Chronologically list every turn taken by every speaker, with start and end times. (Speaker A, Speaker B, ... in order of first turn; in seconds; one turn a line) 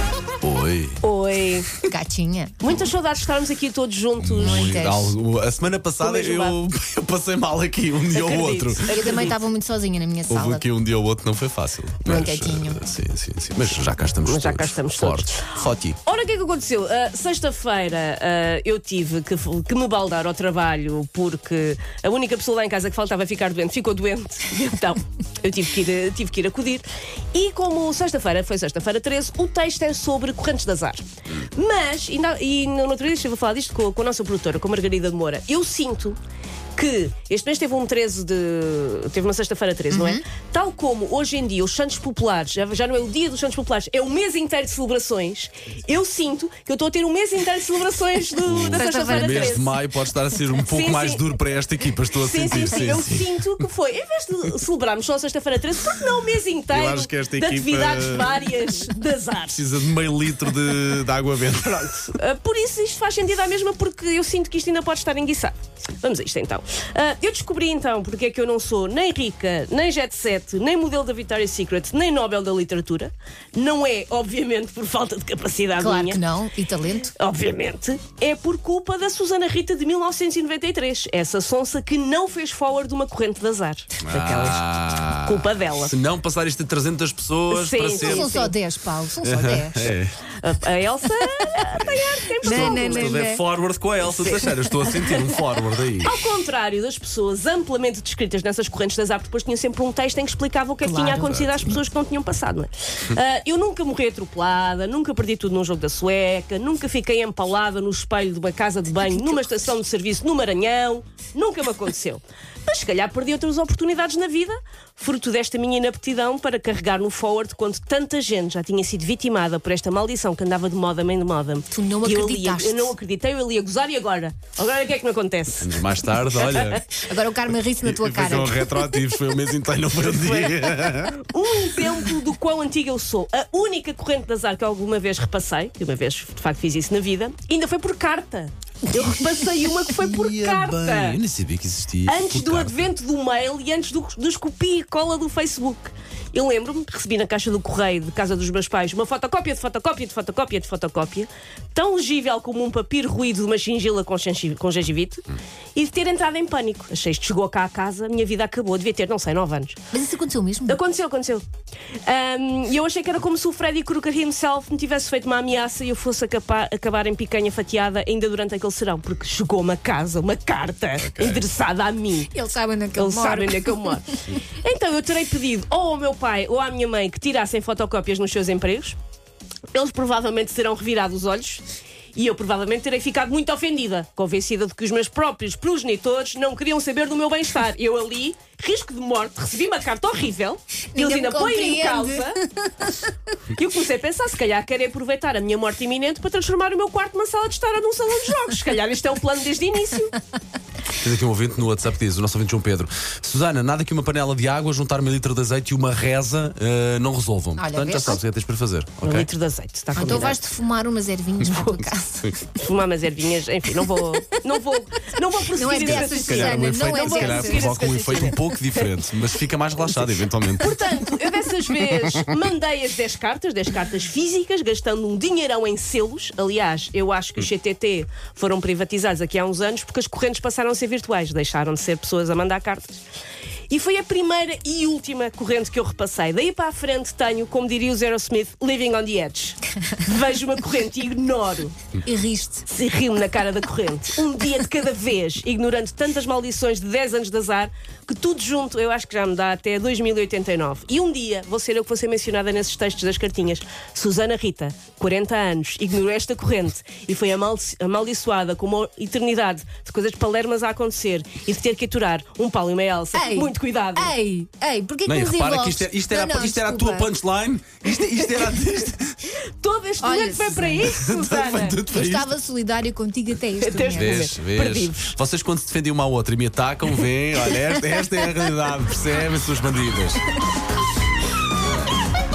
Speaker A: 0.4-1.0
Speaker B: 1.0-1.7
Speaker C: 1.9-2.6
Speaker B: 2.6-4.9
Speaker A: 4.2-9.2
Speaker C: 4.5-5.1
Speaker B: 6.0-6.6
Speaker B: 8.1-9.4
Speaker C: 8.9-10.6
Speaker A: 10.3-16.0
Speaker C: 12.1-12.8
Speaker B: 14.2-36.2
Speaker B: 36.8-49.7
Speaker C: 39.9-40.2
Speaker A: 48.4-53.4
Speaker C: 48.7-49.5
Speaker B: 50.6-51.2
Speaker B: 52.2-59.6
Speaker A: 56.7-58.5
Speaker A: 59.5-62.1
Speaker B: 61.8-76.2
Speaker C: 75.8-77.1
Speaker B: 77.1-85.9
Speaker A: 84.0-88.5
Speaker B: 87.5-88.5
Speaker C: 88.2-89.8
Speaker A: 89.2-90.2
Speaker B: 90.4-93.2
Speaker A: 91.8-96.2
Speaker C: 92.4-93.4
Speaker B: 94.1-95.5
Speaker B: 96.0-126.8
Speaker A: 101.0-101.8
Speaker C: 121.7-122.9
Speaker A: 125.6-126.8
Speaker C: 127.0-128.5
Speaker A: 127.8-131.3
Speaker B: 130.1-141.2
Speaker A: 139.7-142.7
Speaker B: 142.0-159.8
Speaker C: 159.9-160.8
Speaker B: 160.7-161.4
Speaker B: 162.0-172.3
Speaker A: 171.0-171.5
Speaker C: 172.3-174.0
Speaker B: 172.9-179.0
Speaker B: 179.7-181.6
Speaker B: 182.1-192.4
Speaker C: 190.9-193.1
Speaker B: 193.5-200.1
Speaker A: 201.0-209.3
Speaker C: 207.6-208.2
Speaker B: 209.0-210.4
Speaker C: 209.9-212.3
Speaker A: 211.4-212.3
Speaker B: 212.6-218.9
Speaker C: 215.6-217.8
Speaker A: 215.7-222.3
Speaker B: 220.6-233.0
Speaker B: 233.7-241.7
Speaker C: 242.1-242.7
Speaker B: 242.7-264.1
Speaker C: 263.1-267.1
Speaker A: 265.1-269.2
Speaker B: 269.4-271.8
Speaker C: 270.0-270.9
Speaker A: 270.8-272.3
Speaker C: 271.9-274.1
Speaker B: 273.6-275.1
Speaker A: 273.9-280.2